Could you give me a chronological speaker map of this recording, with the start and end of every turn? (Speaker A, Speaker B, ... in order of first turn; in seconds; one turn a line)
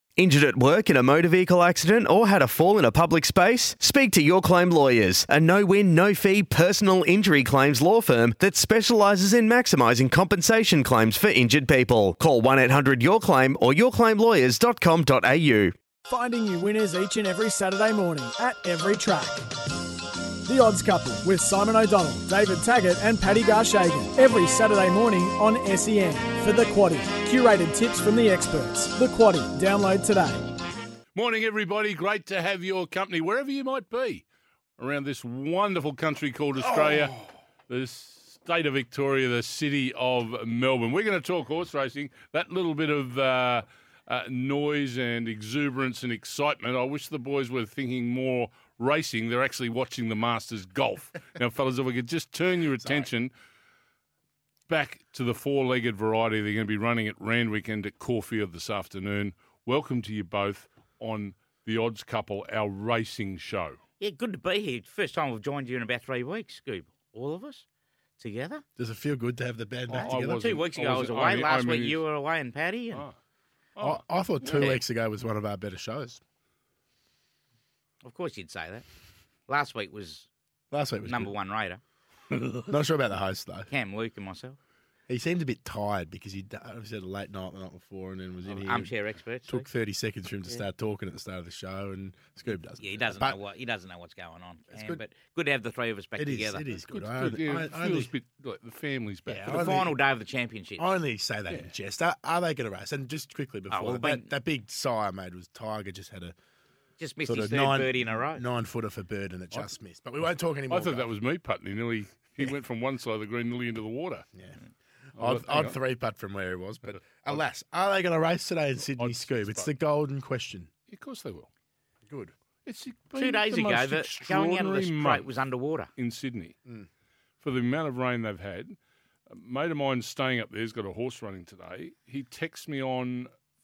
Speaker A: 0.2-15.7
Speaker B: 16.1-19.5
Speaker B: 20.4-30.5
Speaker C: 31.1-34.2
Speaker C: 34.8-53.3
Speaker D: 36.5-37.3
Speaker C: 54.7-63.8
Speaker E: 64.0-67.6
Speaker E: 68.2-68.6
Speaker D: 68.8-70.6
Speaker C: 69.9-72.0
Speaker E: 69.9-73.0
Speaker C: 73.8-74.0
Speaker D: 73.8-76.2
Speaker E: 74.4-74.8
Speaker E: 78.0-78.8
Speaker E: 79.5-80.3
Speaker D: 80.7-81.3
Speaker E: 81.0-81.8
Speaker C: 82.4-82.6
Speaker D: 82.7-83.7
Speaker E: 83.7-84.6
Speaker D: 85.1-88.9
Speaker E: 88.5-89.7
Speaker D: 89.5-93.4
Speaker E: 92.8-96.7
Speaker D: 94.7-95.0
Speaker D: 96.2-98.1
Speaker C: 96.9-99.6
Speaker D: 99.3-99.9
Speaker E: 99.5-100.8
Speaker D: 100.8-106.3
Speaker E: 103.7-104.3
Speaker E: 107.0-108.4
Speaker D: 107.2-111.1
Speaker C: 110.7-114.3
Speaker D: 115.2-120.7
Speaker C: 115.2-115.8
Speaker C: 116.9-117.4
Speaker C: 119.0-119.7
Speaker C: 120.9-121.5
Speaker D: 122.0-122.3
Speaker C: 122.6-125.3
Speaker E: 123.2-125.9
Speaker C: 126.0-126.5
Speaker C: 127.4-128.8
Speaker C: 129.3-133.3